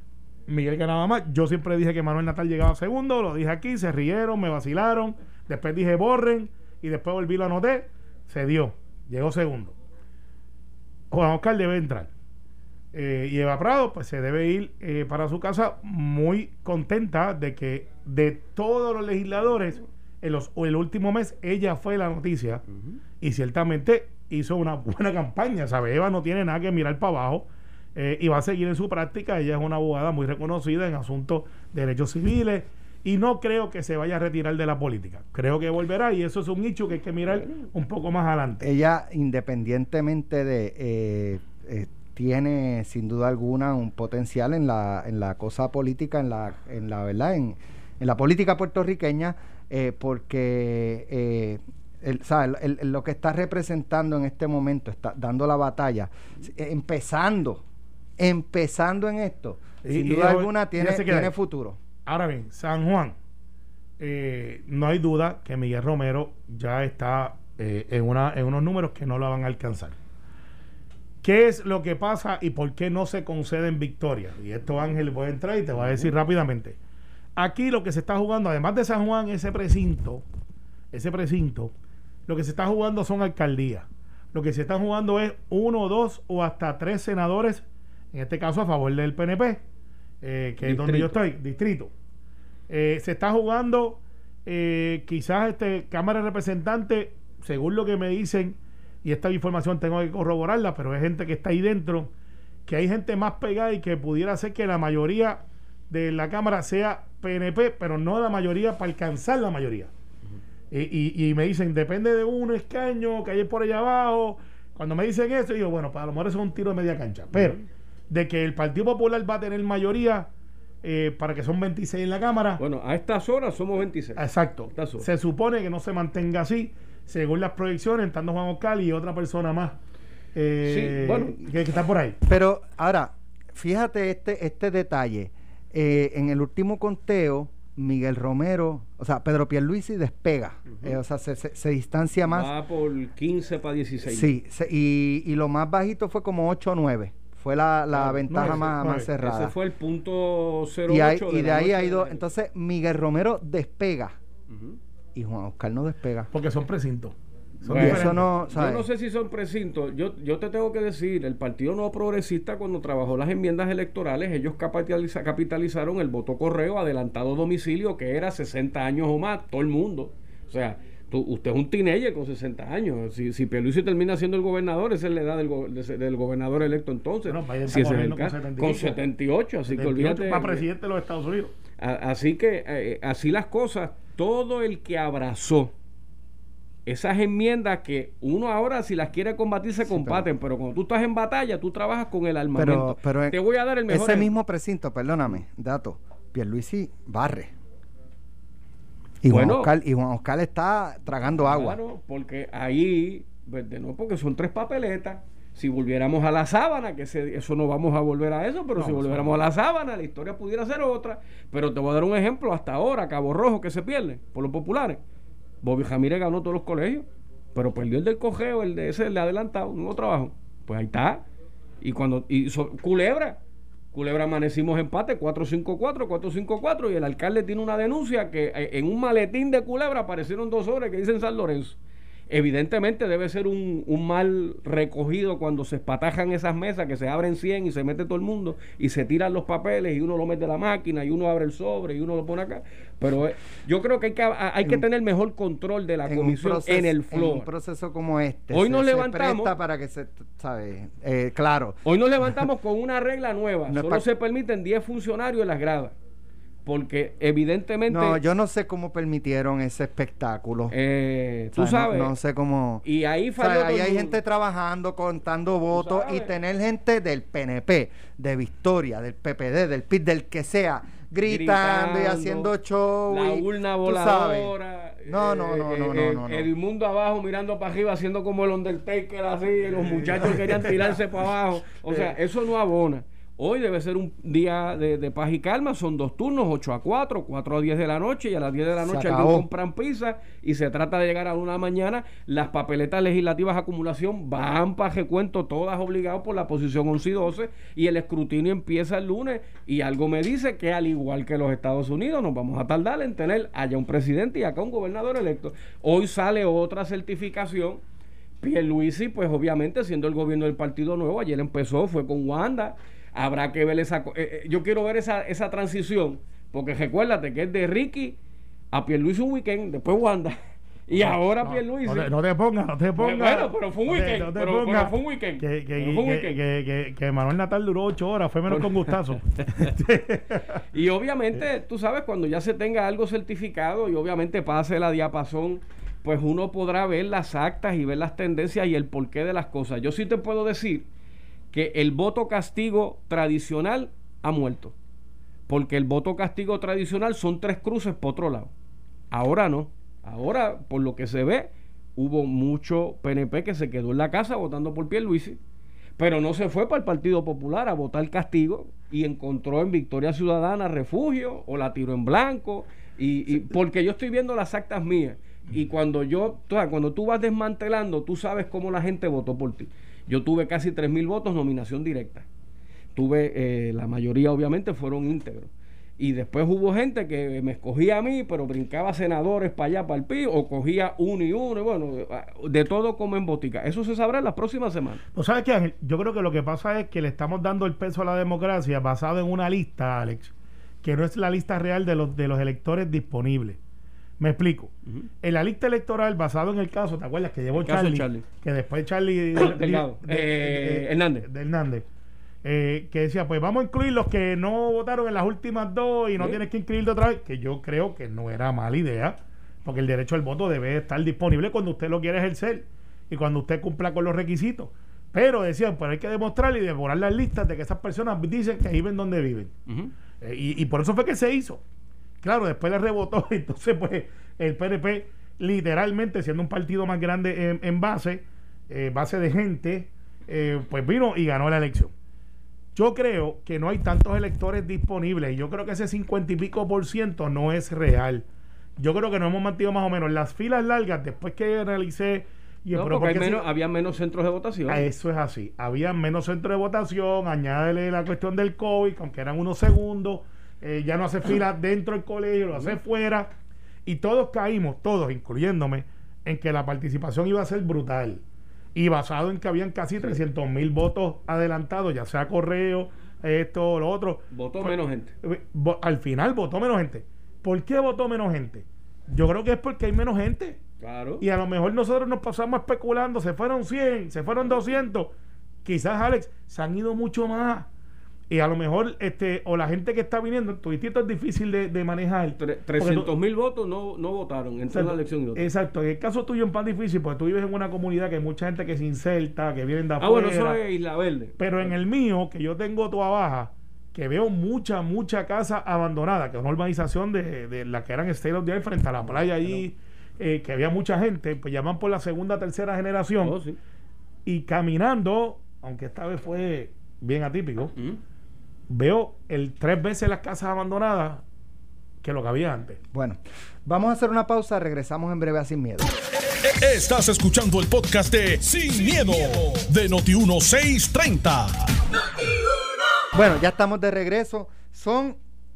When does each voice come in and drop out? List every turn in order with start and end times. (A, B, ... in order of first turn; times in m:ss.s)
0:00.5-0:09.7 A
0:11.1-0:12.1 A
0:12.9-0:22.6 A
0:23.2-0:38.6 A
0:38.6-0:57.6 B
0:58.2-1:01.8 B
0:59.8-1:01.3 A
1:02.0-1:03.2 A
1:04.0-1:09.9 A
1:11.2-1:16.8 A
1:17.4-1:20.2 A
1:20.9-1:21.7 A
1:22.3-1:29.6 A
1:30.2-1:31.9 A
1:30.6-1:31.2 C
1:32.7-1:42.1 A
1:42.7-1:49.9 A
1:50.7-2:00.3 A
2:00.8-2:02.6 A
2:02.6-2:05.1 C
2:04.2-2:09.8 A
2:10.3-2:12.2 A
2:10.6-2:11.4 C
2:12.2-2:22.5 B
2:22.2-2:24.3 C
2:24.0-2:29.5 B
2:27.9-2:28.6 C
2:28.3-2:29.1 A
2:29.2-2:32.2 C
2:30.9-2:34.2 B
2:34.5-2:34.8 C
2:35.1-2:36.3 B
2:36.3-2:38.3 A
2:37.6-3:00.6 C
2:37.7-2:38.9 B
2:57.3-2:59.0 A
2:59.7-3:01.5 A
3:01.8-3:05.7 C
3:06.8-3:14.3 C
3:09.9-3:10.3 B
3:12.5-3:17.5 B
3:19.2-3:21.8 B
3:19.3-3:19.7 C
3:21.4-3:35.0 C
3:28.8-3:29.4 A
3:35.6-3:41.2 C
3:41.8-3:43.4 C
3:43.9-3:51.8 C
3:52.3-4:07.5 C
4:06.0-4:11.8 B
4:08.5-4:09.6 C
4:11.8-4:16.0 C
4:13.7-4:14.0 B
4:16.6-4:18.2 C
4:17.9-4:20.7 B
4:20.7-4:22.1 C
4:21.5-4:22.8 B
4:22.8-4:24.2 C
4:23.4-4:34.5 B
4:25.7-4:26.3 C
4:31.2-4:32.5 C
4:33.1-5:07.8 C
4:35.0-4:36.5 B
4:39.7-4:41.0 A
4:48.8-4:49.5 B
5:08.4-5:18.2 C
5:18.7-5:22.1 C
5:21.0-5:30.6 A
5:23.0-5:26.4 C
5:28.5-5:29.7 C
5:30.7-5:40.9 C
5:41.5-5:44.7 C
5:45.5-5:48.5 C
5:49.1-5:55.4 C
5:56.0-6:12.2 C
6:12.9-6:25.0 C
6:25.1-6:30.3 A
6:30.8-6:33.6 A
6:34.2-6:34.7 A
6:35.2-6:41.8 A
6:37.6-6:38.2 C
6:39.3-6:41.3 C
6:42.4-6:59.5 A
7:00.2-7:01.6 A
7:02.2-7:11.9 A
7:12.7-7:18.2 A
7:18.8-7:23.4 A
7:22.7-7:24.8 C
7:24.7-7:33.3 A
7:33.8-7:38.2 A
7:38.7-7:50.6 A
7:44.3-7:45.1 C
7:50.8-7:51.2 C
7:51.2-7:55.1 A
7:55.6-7:57.7 A
7:58.3-8:03.1 A
8:02.4-8:05.4 C
8:04.7-8:10.6 A
8:10.0-8:11.7 C
8:11.4-8:23.4 A
8:19.0-8:19.6 C
8:23.2-8:23.6 C
8:24.2-8:27.7 A
8:28.7-8:31.2 A
8:32.0-8:32.8 A
8:32.9-8:35.9 B
8:36.2-8:41.7 D
8:43.1-8:45.2 B